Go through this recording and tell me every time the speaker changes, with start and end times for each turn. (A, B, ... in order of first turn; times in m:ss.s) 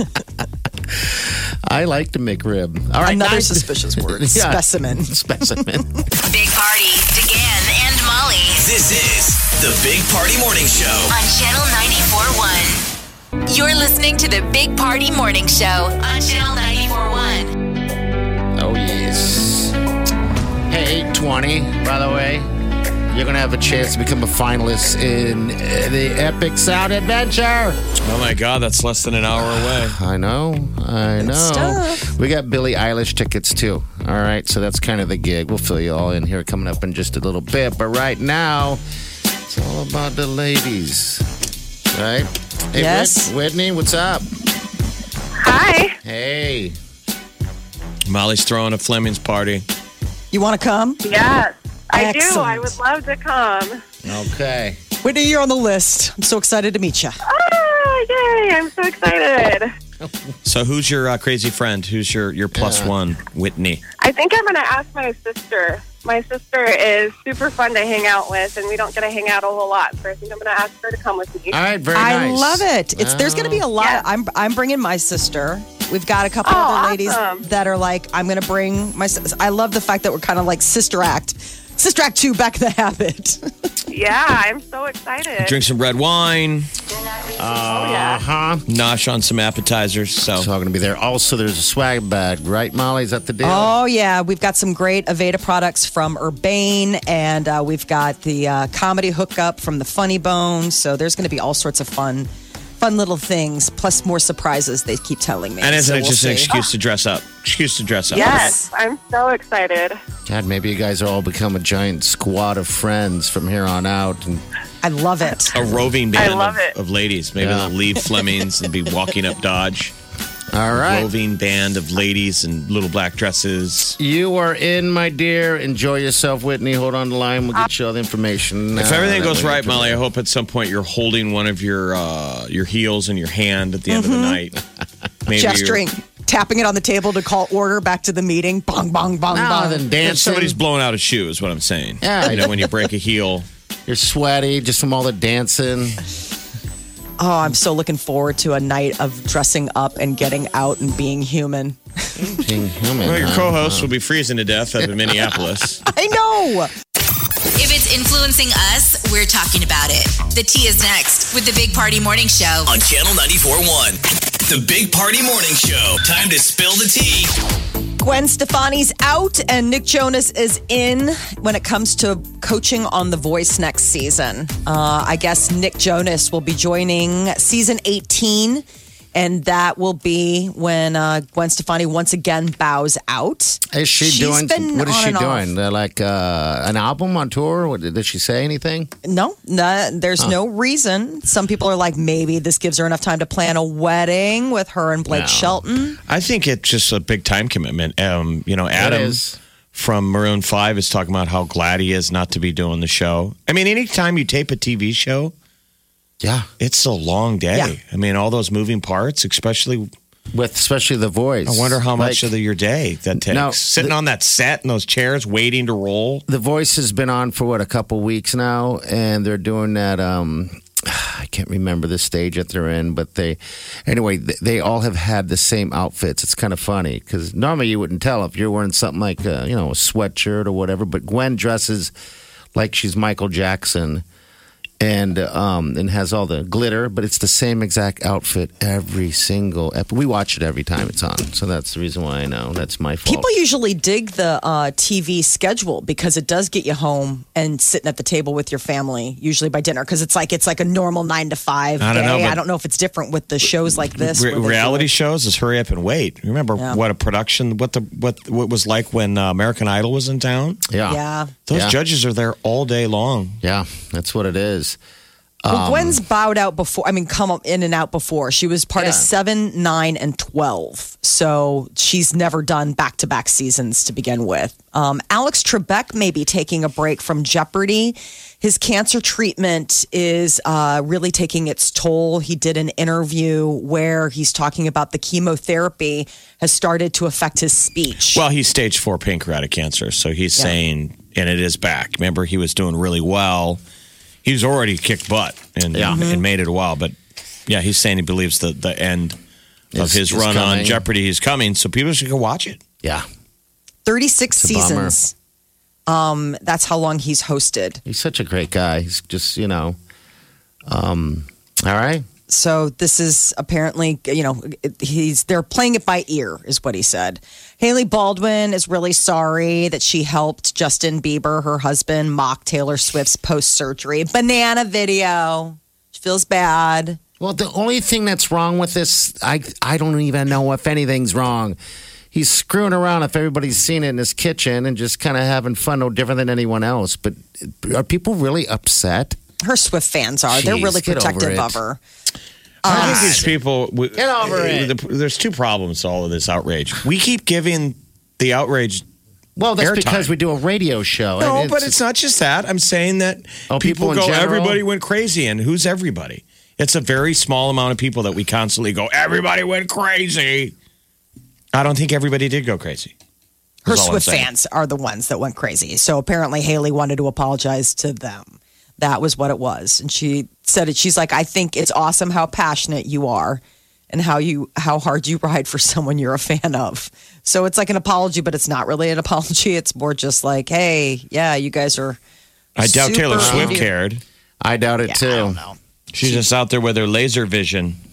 0:00.9-0:05.9 A
0:03.0-0:05.6 B
0:06.2-0:08.6 C
0:08.6-0:11.1 D
0:11.1-0:12.8 C
0:13.4-0:17.5 C
0:18.5-0:19.7 A
0:20.7-0:22.5 A
0:23.1-0:27.8 A
0:28.0-0:30.0 E
0:29.4-0:38.8 A
0:31.2-0:32.0 B
0:39.5-0:41.2 A
0:41.9-0:44.2 A
0:42.7-0:43.3 B
0:45.4-0:46.0 F
0:46.0-0:46.7 A
0:48.1-0:49.6 E
0:50.3-0:51.0 B
0:51.0-0:53.8 F
0:51.9-0:52.7 B
0:54.0-0:54.8 A
0:55.0-0:57.2 B
0:57.2-0:59.7 F
1:00.4-1:03.8 E
1:02.5-1:02.9 A
1:04.0-1:11.6 F
1:11.5-1:13.7 A
1:11.9-1:23.5 B
1:16.4-1:17.4 F
1:23.9-1:25.6 F
1:25.4-1:26.7 E
1:27.4-1:28.6 A
1:27.7-1:28.2 F
1:28.7-1:30.5 E
1:30.3-1:33.8 A
1:33.4-1:46.5 B
1:45.6-1:48.6 E
1:48.1-1:48.6 B
1:48.1-1:50.0 F
1:50.3-1:54.4 A
1:54.8-1:55.6 B
1:55.5-1:59.9 E
1:56.1-1:56.7 F
1:57.4-1:57.7 A
2:00.5-2:01.1 A
2:00.7-2:04.0 E
2:04.0-2:10.0 A
2:08.8-2:14.6 E
2:13.9-2:14.4 B
2:15.2-2:15.8 E
2:15.3-2:19.8 B
2:19.3-2:20.6 A
2:20.0-2:23.5 E
2:22.0-2:22.8 A
2:23.9-2:26.0 A
2:27.2-2:32.2 B
2:32.2-2:33.9 A
2:33.0-2:35.8 E
2:35.9-2:36.7 B
2:37.6-2:42.7 C
2:42.6-2:47.3 D
2:48.0-3:05.5 B
3:03.7-3:08.9 A
3:09.0-3:16.0 B
3:15.1-3:15.6 A
3:16.1-3:25.3 E
3:18.7-3:19.4 A
3:26.2-3:26.5 A
3:26.6-3:29.9 E
3:30.3-3:32.3 A
3:31.4-3:36.2 E
3:33.2-3:33.9 A
3:36.3-3:51.9 A
3:52.5-3:54.0 A
3:54.8-4:03.3 A
4:03.0-4:14.9 B
4:11.8-4:12.4 E
4:14.0-4:20.6 E
4:20.7-4:21.0 A
4:20.8-4:21.3 B
4:21.4-4:23.4 E
4:21.5-4:21.8 A
4:23.4-4:24.8 A
4:25.4-4:26.0 A
4:25.5-4:48.2 B
4:28.8-4:29.1 A
4:48.1-4:53.6 E
4:54.2-4:56.9 E
4:55.7-4:56.0 A
4:55.8-4:56.2 B
4:57.5-4:59.2 E
4:59.7-5:00.8 A
4:59.8-5:02.6 E
5:03.8-5:05.1 B
5:04.4-5:05.0 A
5:05.9-5:07.8 B
5:07.8-5:09.8 A
5:10.7-5:12.0 A
5:12.3-5:27.0 B
5:27.2-5:31.6 A
5:32.1-5:39.2 A
5:39.4-5:41.8 B
5:40.3-5:41.6 A
5:42.6-5:43.2 B
5:42.6-5:48.8 E
5:42.6-5:43.3 A
5:43.9-5:44.7 A
5:49.4-5:51.7 A
5:49.6-5:50.1 E
5:51.2-6:00.5 E
5:53.5-5:54.6 A
6:01.5-6:02.9 E
6:03.6-6:04.3 E
6:03.6-6:22.0 B
6:22.6-6:24.0 E
6:22.6-6:23.7 B
6:23.2-6:23.6 A
6:24.4-6:25.4 A
6:24.8-6:26.2 B
6:25.9-6:27.8 E